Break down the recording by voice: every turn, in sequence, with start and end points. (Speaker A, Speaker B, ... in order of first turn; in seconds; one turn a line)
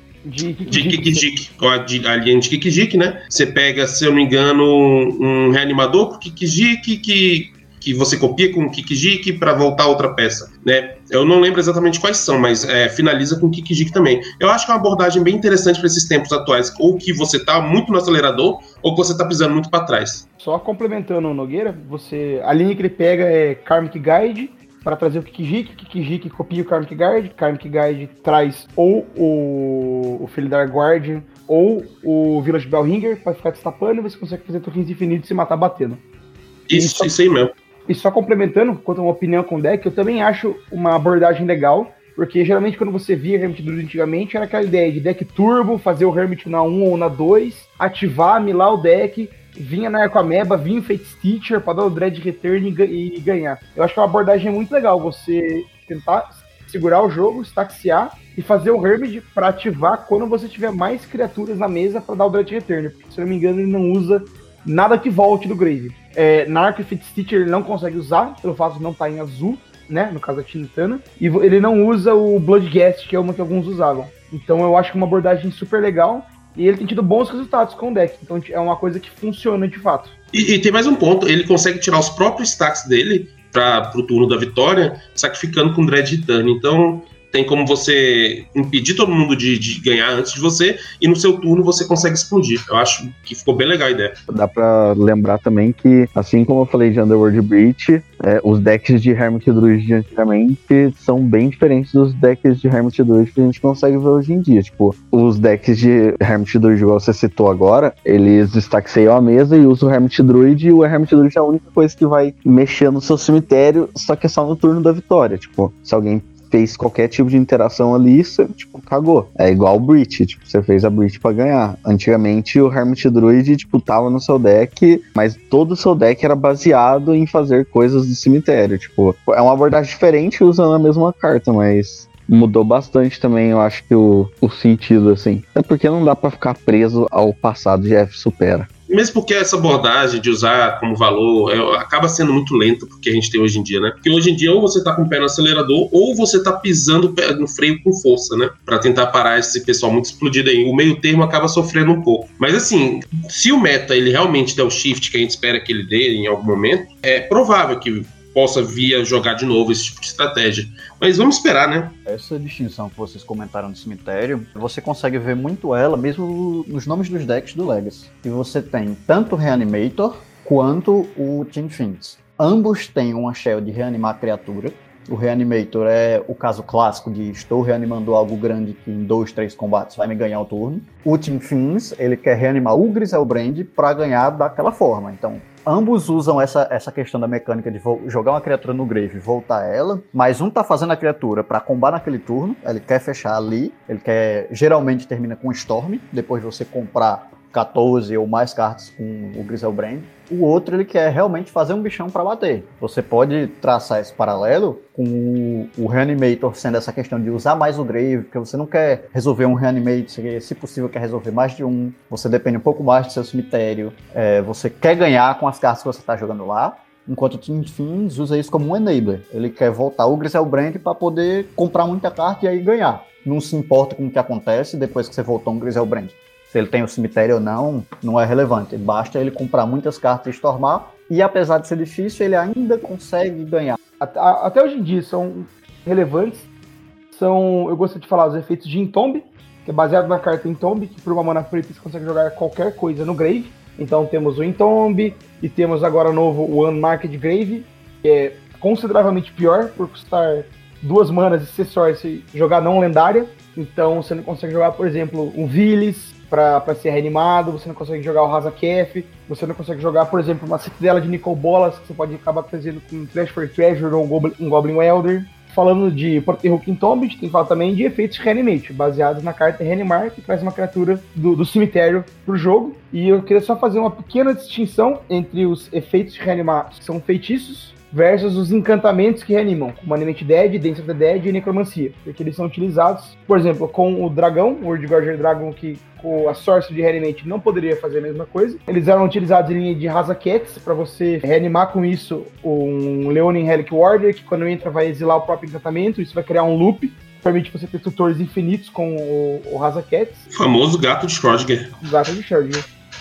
Speaker A: 0.2-1.2
Speaker B: 0.7-20.2
Speaker A: 20.4-36.0
Speaker B: 36.7-37.5
Speaker A: 36.7-37.1
Speaker A: 37.9-80.1
Speaker B: 80.3-94.1
Speaker C: 94.3-138.7
Speaker B: 138.9-161.9
Speaker D: 162.1-233.8
Speaker A: 234.0-236.5
Speaker A: 237.1-300.2
Speaker B: 300.3-301.7
Speaker A: 301.8-302.7